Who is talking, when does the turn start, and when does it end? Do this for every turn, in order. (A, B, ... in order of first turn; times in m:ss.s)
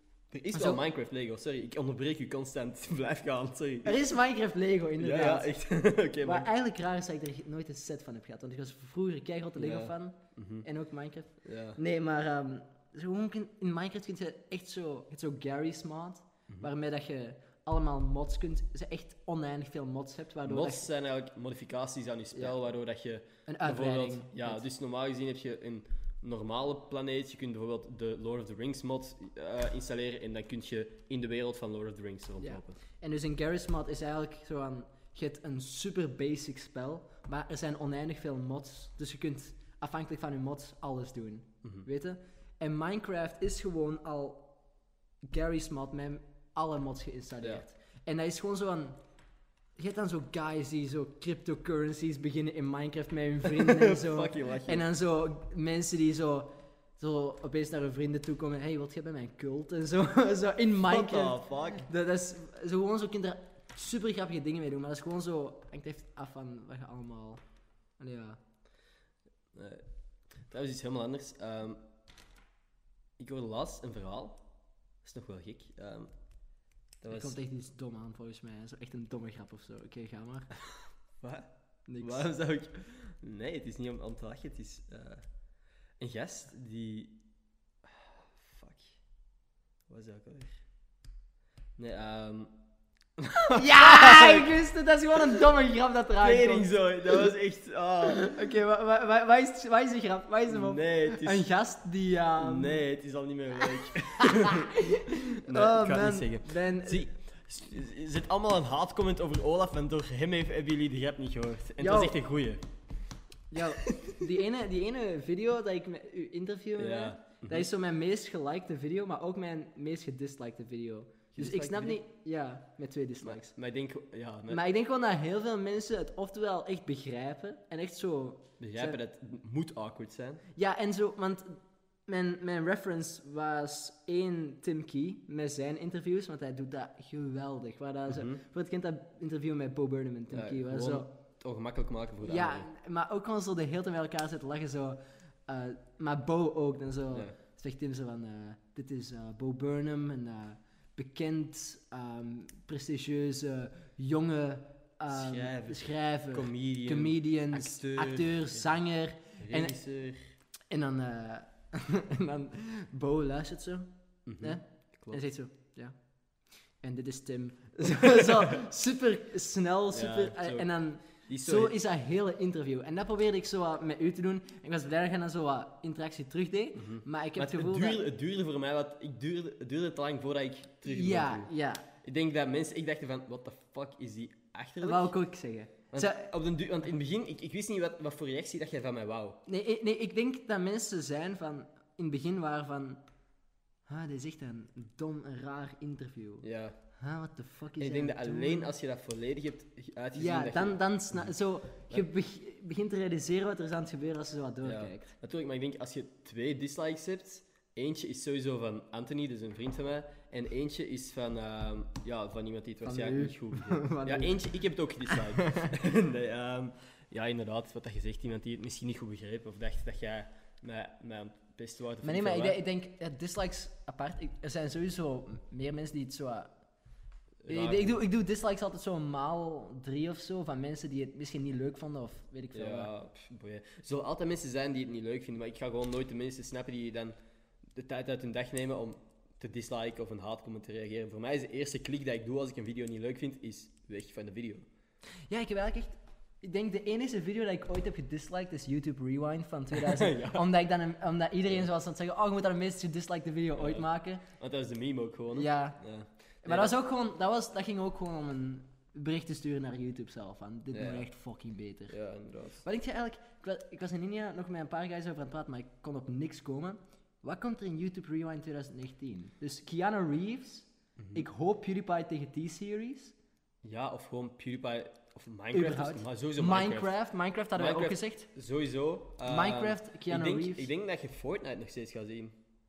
0:00.3-0:04.0 A
0:00.5-0:00.8 B
0:03.8-0:05.5 B
0:05.0-0:06.5 A
0:06.2-0:20.9 B
0:09.6-0:10.7 A
0:11.4-0:11.8 A
0:20.4-0:32.8 A
0:23.5-0:24.6 B
0:32.4-0:44.5 B
0:45.2-0:49.0 B
0:49.8-1:07.4 B
0:53.4-0:54.8 A
1:00.8-1:01.9 A
1:08.0-1:08.4 B
1:09.5-1:09.8 A
1:10.5-1:11.8 A
1:13.2-1:14.4 A
1:15.0-1:16.1 A
1:17.0-1:17.4 A
1:17.1-1:20.5 B
1:21.2-1:25.2 A
1:21.9-1:22.3 B
1:26.0-1:27.2 A
1:27.8-1:29.0 A
1:29.9-1:30.6 A
1:31.8-1:32.5 A
1:33.2-1:34.5 A
1:33.5-1:37.2 B
1:36.2-1:38.4 A
1:38.1-1:42.8 B
1:40.5-1:41.5 A
1:42.4-1:52.6 A
1:44.2-1:47.1 B
1:51.8-1:52.2 B
1:53.5-2:03.6 B
1:53.9-1:54.2 A
1:56.8-1:57.7 A
2:01.3-2:02.0 A
2:03.2-2:04.6 A
2:04.5-2:09.0 B
2:08.6-2:10.4 A
2:10.6-2:21.1 B
2:18.1-2:18.4 A
2:20.3-2:22.7 A
2:22.2-2:39.8 B
2:35.1-2:38.6 A
2:39.4-2:40.2 A
2:40.7-2:46.2 B
2:44.2-2:45.2 A
2:46.8-2:58.1 B
2:49.9-2:51.7 A
2:56.8-3:01.5 A
3:00.8-3:01.8 B
3:02.0-3:05.1 A
3:04.8-3:06.3 B
3:05.9-3:09.4 A
3:09.4-3:13.0 B
3:13.9-3:16.4 B
3:16.4-3:16.8 A
3:17.0-3:18.7 B
3:17.8-3:21.3 A
3:20.1-3:25.1 B
3:24.6-3:42.6 A
3:32.8-3:34.5 B
3:35.1-3:35.7 B
3:42.0-3:46.5 B
3:47.4-3:48.0 A
3:47.5-3:52.9 B
3:52.5-3:57.2 A
3:57.7-4:04.6 A
4:05.3-4:14.2 B
4:09.7-4:10.5 A
4:13.6-4:16.7 A
4:15.3-4:15.8 B
4:16.4-4:22.0 B
4:20.7-4:21.1 A
4:21.9-4:22.6 A
4:22.6-4:33.1 B
4:31.0-4:31.2 A
4:33.6-4:36.9 A
4:35.5-4:38.3 B
4:37.6-4:42.4 A
4:39.2-4:40.7 B